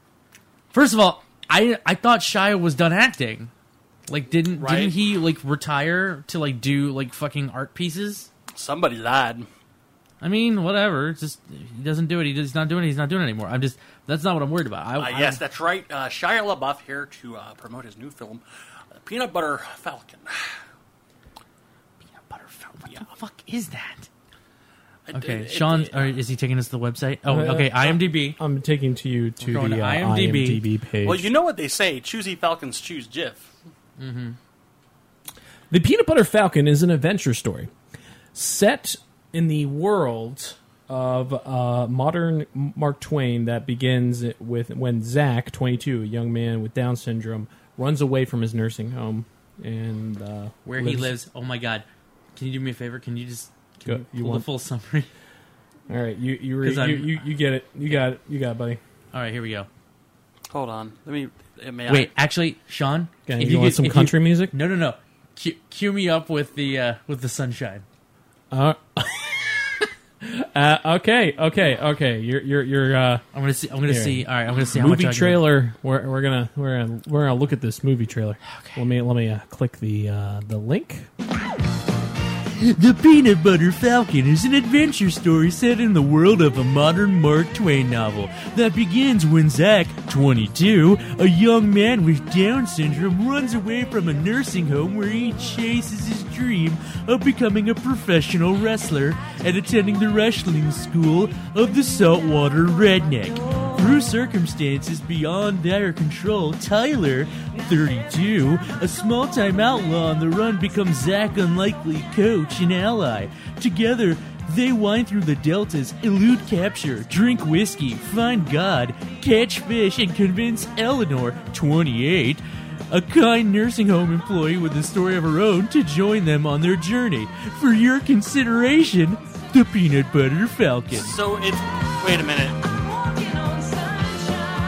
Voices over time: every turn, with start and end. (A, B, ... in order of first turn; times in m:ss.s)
0:00.7-0:03.5 A
0:04.1-0:08.3 A
0:04.6-0:05.0 B
0:08.5-0:09.5 B
0:10.2-0:15.4 A
0:15.0-0:18.4 B
0:18.9-0:20.6 B
0:22.0-0:24.1 A
0:25.1-0:26.1 B
0:25.1-0:28.4 A
0:27.3-0:31.3 C
0:29.4-0:30.6 A
0:31.0-0:33.5 B
0:34.0-0:34.4 A
0:35.7-0:37.7 C
0:38.3-0:51.1 C
0:50.6-0:55.1 A
0:53.8-0:54.4 C
0:55.9-0:58.8 C
0:56.6-0:57.2 A
0:59.1-0:59.7 A
1:00.5-1:02.1 B
1:01.9-1:07.8 A
1:03.3-1:04.5 C
1:08.5-1:13.2 C
1:13.3-1:15.5 A
1:13.9-1:21.1 C
1:22.5-2:11.1 A
2:10.9-2:12.6 B